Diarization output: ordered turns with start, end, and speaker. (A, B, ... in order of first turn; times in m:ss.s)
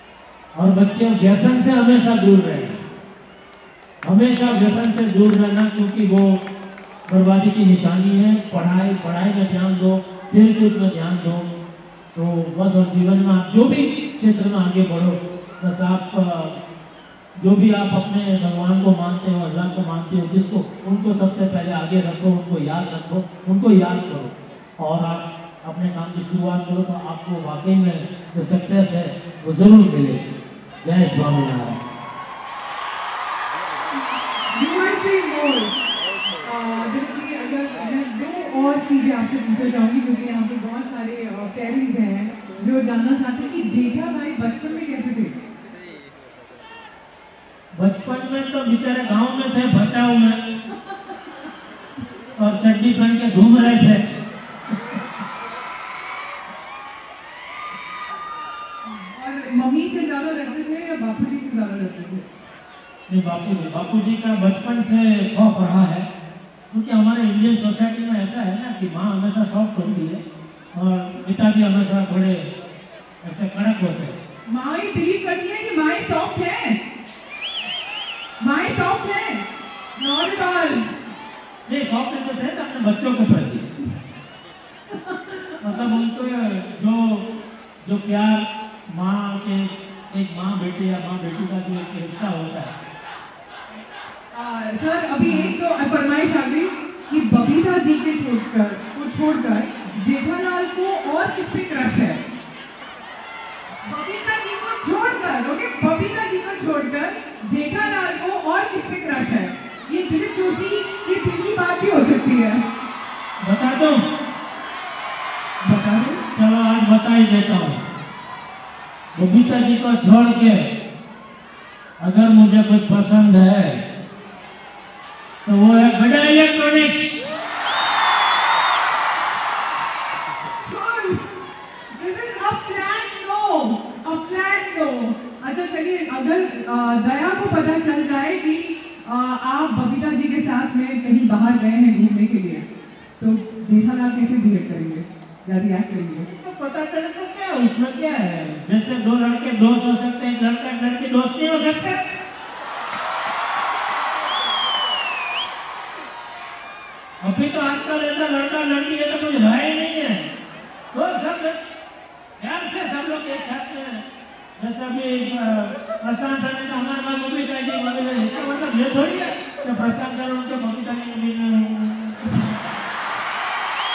0:00.5-0:02.8 A
0:04.0-0:06.4 A
0:07.1-0:11.5 A
0:12.1-0:16.6 A
0:17.4-0:30.2 A
0:30.8-0:31.8 A
0:34.5-0:35.8 B
0:36.4-0:45.3 B
0:47.7-0:50.4 A
0:52.4-0:54.0 A
0:58.8-1:02.3 B
1:03.1-1:06.1 A
1:06.7-1:10.2 A
1:10.7-1:12.5 A
1:13.2-1:14.2 A
1:14.5-1:16.8 B
1:18.4-1:20.9 B
1:21.6-1:23.7 A
1:24.9-1:25.5 B
1:25.6-1:27.2 A
1:27.8-1:32.7 A
1:34.3-1:42.2 B
1:43.8-1:52.6 B
1:53.4-1:54.0 A
1:55.6-1:56.2 B
1:56.3-1:57.8 A
1:59.1-2:00.6 A
2:02.0-2:03.8 A
2:05.4-2:07.2 A
2:10.6-2:11.2 B
2:11.9-2:22.6 B
2:23.2-2:26.3 B
2:26.3-2:32.0 A
2:37.2-2:40.3 A
2:40.9-2:41.6 A
2:42.4-2:44.0 A
2:44.6-2:52.5 A